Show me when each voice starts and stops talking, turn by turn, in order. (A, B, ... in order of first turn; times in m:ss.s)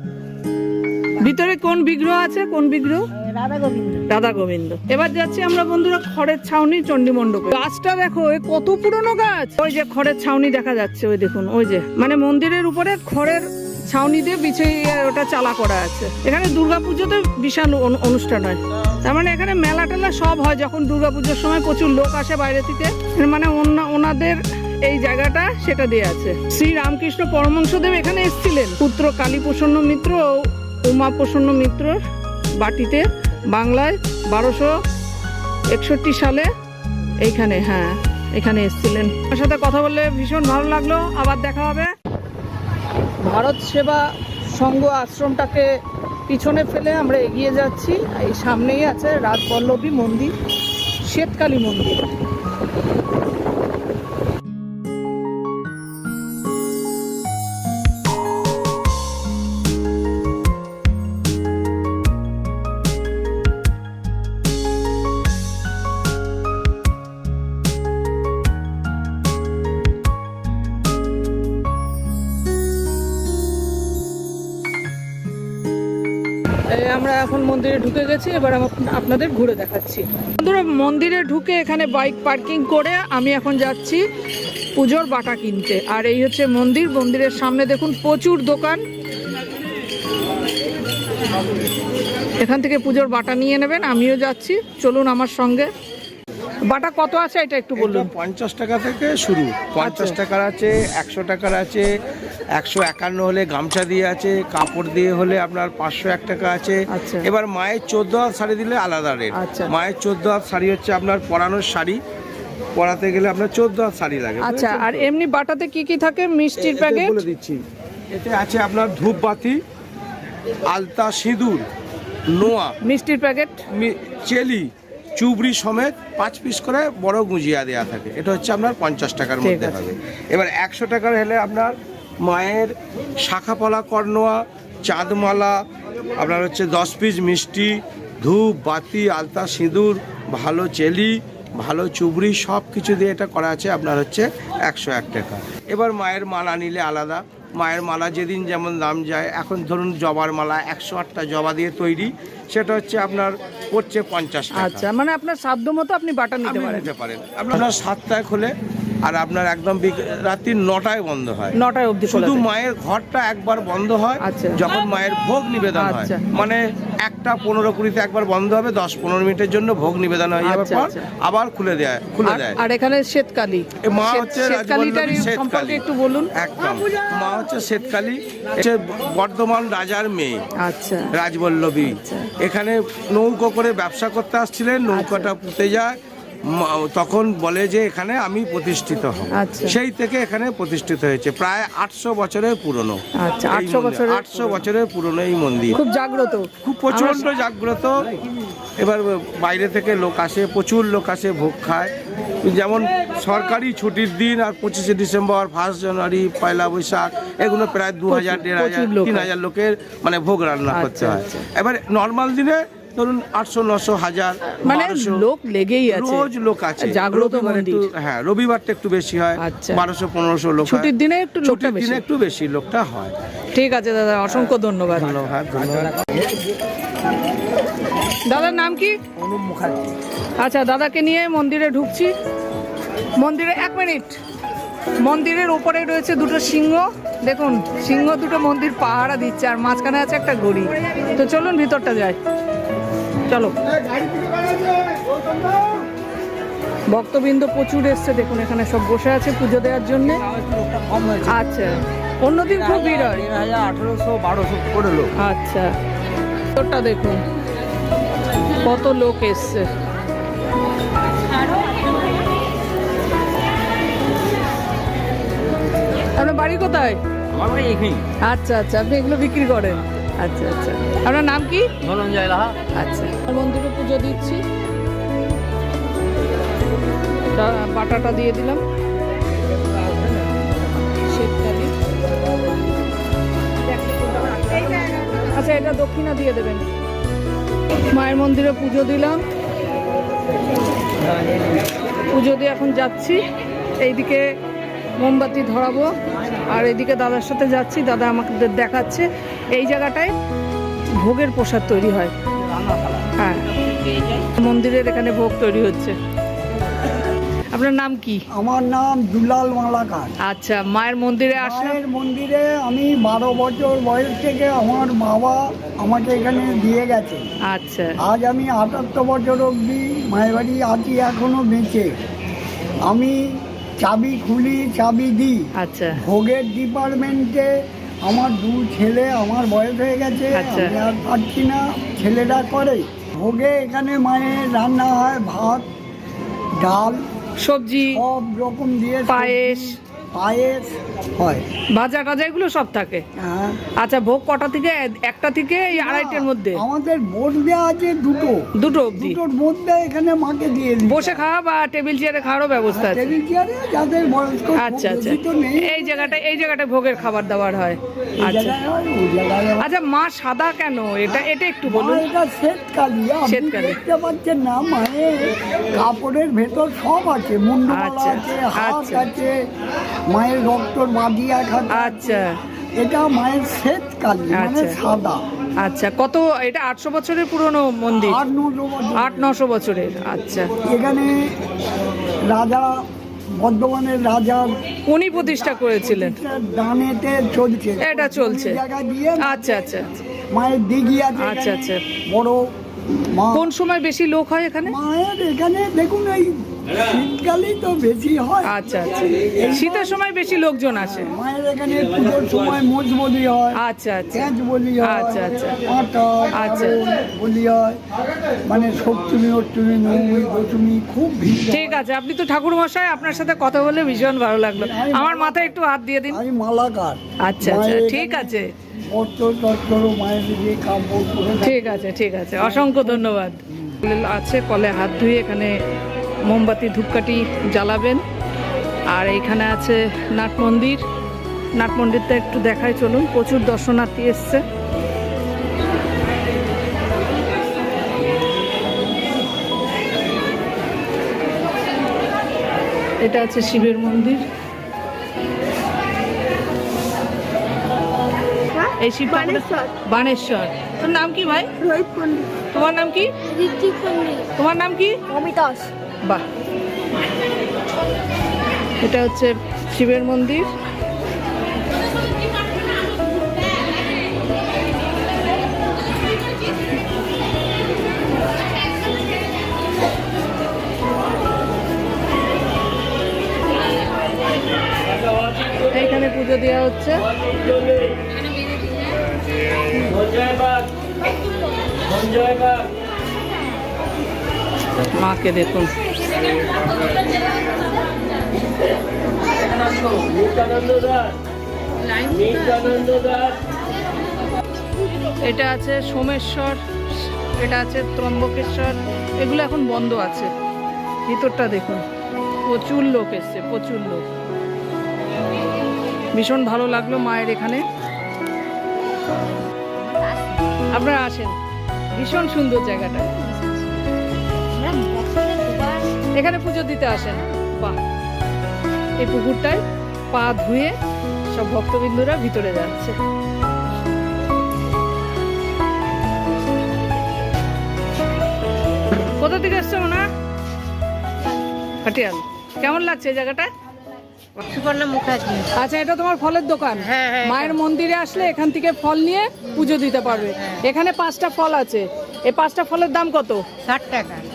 0:01.2-0:03.1 A
0:03.2-0:04.0 B
0:04.1-0:32.0 A
0:32.6-0:34.7 A
0:35.7-0:36.5 A
0:37.2-0:41.9 A
0:43.2-0:45.7 A
0:46.3-0:50.3 A
0:51.0-0:52.0 A
1:16.7-1:24.0 A
1:24.8-1:28.8 A
1:32.4-1:35.7 A
1:36.7-1:38.1 A
1:37.8-1:41.9 C
1:39.8-1:40.2 A
1:42.6-1:52.0 C
1:46.9-1:47.3 A
1:49.3-1:49.7 A
1:52.8-1:55.0 C
1:54.4-1:57.2 A
1:56.6-1:59.6 C
2:00.7-2:01.6 C
2:02.3-2:02.8 C
2:02.4-2:03.6 A
2:03.7-2:15.5 C
2:09.4-2:09.9 A
2:16.2-2:34.8 C
2:34.5-2:36.9 A
2:36.4-2:38.5 C
2:39.0-2:41.5 C
2:41.5-2:42.5 A
2:42.1-2:52.6 C
2:44.2-2:44.6 A
2:45.7-2:46.2 A
2:50.4-2:51.0 A
2:52.2-2:56.3 A
2:53.8-2:55.8 C
2:56.4-3:00.4 C
3:00.6-3:01.1 A
3:01.1-3:05.9 C
3:01.8-3:02.3 A
3:04.9-3:05.3 A
3:06.6-3:15.8 C
3:09.3-3:09.8 A
3:13.2-3:14.6 A
3:15.7-3:17.2 A
3:16.6-3:17.9 C
3:18.8-3:35.2 C
3:28.1-3:29.3 A
3:30.7-3:31.4 A
3:34.6-3:36.3 A
3:35.9-3:40.9 C
3:36.8-3:37.8 A
3:39.4-3:39.8 A
3:40.6-3:42.0 A
3:41.4-3:43.1 C
3:43.5-3:45.2 A
3:44.9-3:46.0 C
3:48.3-3:49.0 A
3:50.4-3:52.1 A
3:53.2-3:54.2 A
3:55.0-4:02.2 A
4:03.2-4:03.6 A
4:06.9-4:10.2 A
4:11.2-4:13.3 A
4:15.1-4:15.7 A
4:16.5-4:17.2 A
4:18.5-4:19.7 A
4:26.2-4:27.0 A
4:28.2-4:31.6 A
4:32.7-4:34.4 A
4:37.3-4:38.6 A
4:41.0-4:41.7 A
4:44.3-4:44.7 B
4:45.3-4:46.7 A
4:47.9-4:49.3 A
4:52.1-4:53.2 A
4:53.8-4:54.2 A
4:55.0-4:55.9 A
4:56.5-5:00.1 A
5:01.0-5:02.1 A
5:03.2-5:03.5 A
5:04.2-5:05.9 A
5:07.5-5:08.2 A
5:08.3-5:10.1 D
5:10.2-5:11.8 A
5:11.4-5:17.3 D
5:17.5-5:17.9 A
5:18.0-5:21.9 D
5:22.9-5:25.4 D
5:25.6-5:26.0 A
5:26.0-5:27.5 D
5:28.0-5:35.6 D
5:30.3-5:30.7 A
5:36.6-5:37.0 D
5:37.4-5:38.0 A
5:37.9-5:39.6 D
5:39.1-5:39.8 A
5:40.1-5:41.4 D
5:41.7-5:43.0 A
5:43.2-5:43.6 D
5:43.8-5:46.6 A
5:45.7-5:48.4 D
5:48.6-5:49.2 A
5:48.9-5:51.2 D
5:50.9-5:53.1 A
5:52.7-5:56.0 D
5:54.6-5:58.6 A
5:58.2-5:59.6 D
5:59.6-6:02.0 A
6:01.0-6:09.4 D
6:03.3-6:03.8 A
6:07.7-6:09.1 A
6:10.1-6:12.2 D
6:11.7-6:12.3 A
6:12.8-6:15.2 D
6:14.4-6:14.8 A
6:15.6-6:18.2 A
6:18.0-6:19.1 D
6:19.0-6:20.5 A
6:20.6-6:21.3 D
6:22.3-6:22.7 D
6:23.4-6:24.6 D
6:24.9-6:26.2 A
6:25.2-6:29.6 D
6:27.8-6:28.6 A
6:29.2-6:30.0 A
6:30.3-6:32.4 D
6:31.2-6:31.8 A
6:33.1-6:33.5 D
6:33.3-6:34.7 A
6:34.6-6:38.6 D
6:38.4-6:41.1 A
6:39.2-6:40.0 D
6:40.8-6:43.6 D
6:43.6-6:44.3 A
6:44.1-6:47.8 D
6:44.8-6:45.6 A
6:46.4-6:46.7 A
6:48.4-6:51.8 D
6:51.5-6:56.2 A
6:54.6-6:55.4 D
6:56.1-7:01.6 D
6:57.2-6:58.5 A
7:01.4-7:05.5 A
7:02.4-7:03.1 D
7:06.2-7:08.0 A
7:08.9-7:10.8 A
7:11.6-7:14.4 A
7:23.0-7:24.2 A
7:28.8-7:31.5 A
7:29.2-7:29.7 B
7:31.6-7:32.3 B
7:32.5-7:33.1 A
7:33.4-7:34.2 B
7:34.4-7:35.0 A
7:35.1-7:35.7 B
7:38.8-7:40.5 A
7:55.7-7:57.1 A
8:04.9-8:05.7 A
8:15.2-8:16.6 A
8:17.3-8:20.3 A
8:21.1-8:21.8 A
8:22.5-8:24.0 A
8:26.1-8:27.6 A
8:30.7-8:31.3 A
8:31.9-8:33.5 A
8:34.5-8:34.9 E
8:34.9-8:35.7 B
8:36.2-8:37.8 A
8:39.0-8:40.7 A
8:41.3-8:43.0 A
8:48.9-8:50.0 A
8:51.8-8:53.5 A
8:54.5-8:55.5 E
8:55.5-9:03.4 A
8:56.9-8:57.5 E
9:03.7-9:04.2 E